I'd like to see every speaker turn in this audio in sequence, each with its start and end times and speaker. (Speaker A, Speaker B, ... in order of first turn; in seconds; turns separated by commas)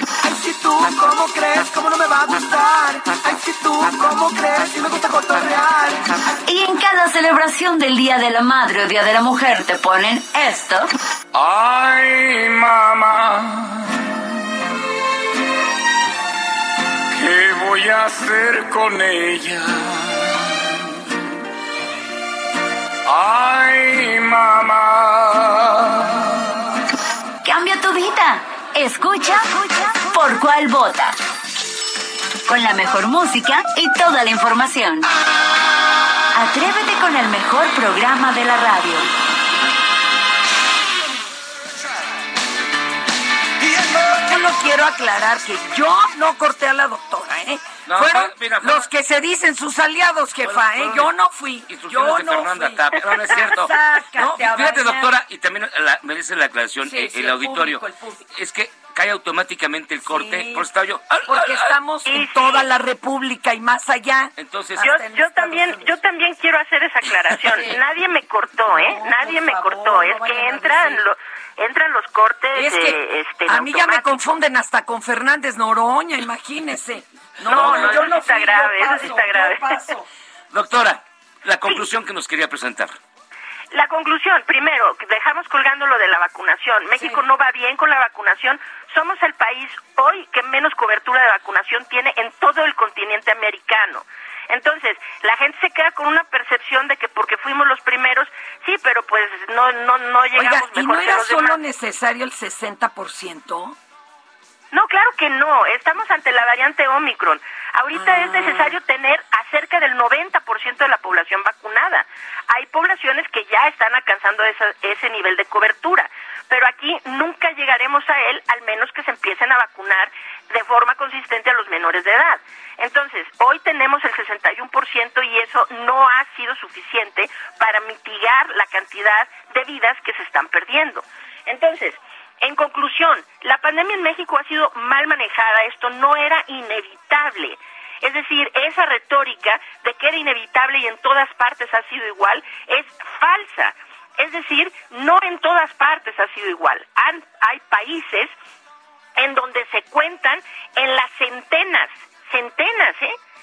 Speaker A: 0.2-6.2, Speaker B: 6.5-10.9, Speaker C: 11.4-12.4, Speaker C: 17.2-20.4, Speaker C: 23.1-23.7, Speaker B: 27.4-31.2, Speaker B: 32.5-35.1, Speaker B: 36.3-39.1, Speaker D: 44.1-55.1, Speaker E: 47.9-48.9, Speaker E: 50.4-51.1, Speaker E: 51.7-61.8, Speaker D: 56.8-58.2, Speaker D: 60.1-60.7, Speaker D: 61.2-66.0, Speaker F: 62.0-62.7, Speaker E: 64.4-64.9, Speaker F: 64.8-74.2, Speaker D: 67.5-67.8, Speaker D: 68.7-71.0, Speaker D: 72.5-80.0, Speaker E: 77.5-78.2, Speaker F: 77.5-79.8, Speaker E: 80.5-83.0, Speaker F: 83.7-101.6, Speaker D: 100.3-103.8, Speaker F: 104.7-148.3, Speaker D: 108.4-108.7, Speaker F: 149.2-153.2